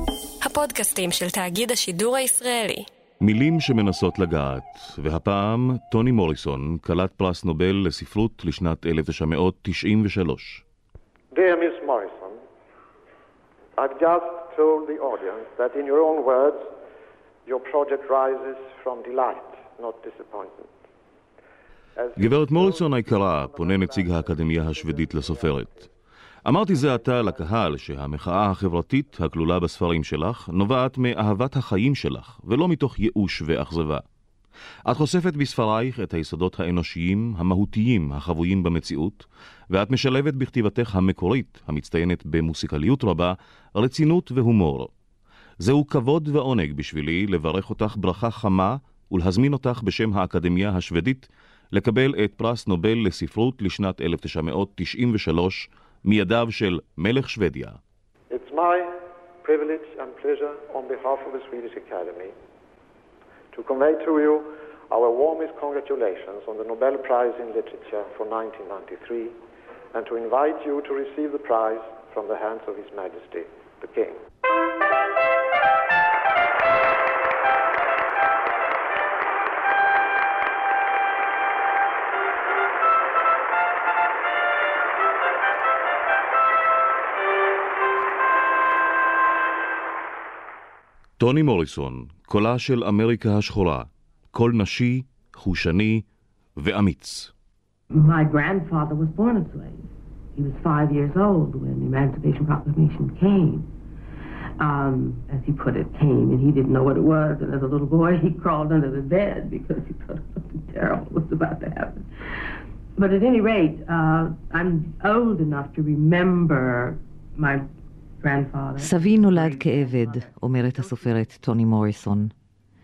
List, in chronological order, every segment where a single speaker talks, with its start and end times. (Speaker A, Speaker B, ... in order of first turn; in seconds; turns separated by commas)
Speaker A: 0.4-2.9, Speaker B: 3.2-10.6, Speaker C: 11.3-12.4, Speaker C: 13.8-16.7, Speaker C: 17.5-20.7, Speaker C: 22.0-25.7, Speaker B: 22.2-25.8, Speaker B: 26.4-34.0, Speaker C: 26.7-27.4, Speaker B: 34.9-44.9, Speaker B: 45.6-57.8, Speaker C: 58.3-62.3, Speaker C: 63.5-69.4, Speaker C: 69.9-74.2, Speaker B: 91.2-96.0, Speaker B: 96.6-97.3, Speaker D: 97.9-103.7, Speaker D: 104.6-112.5, Speaker D: 113.0-117.7, Speaker D: 118.2-121.3, Speaker E: 118.8-122.3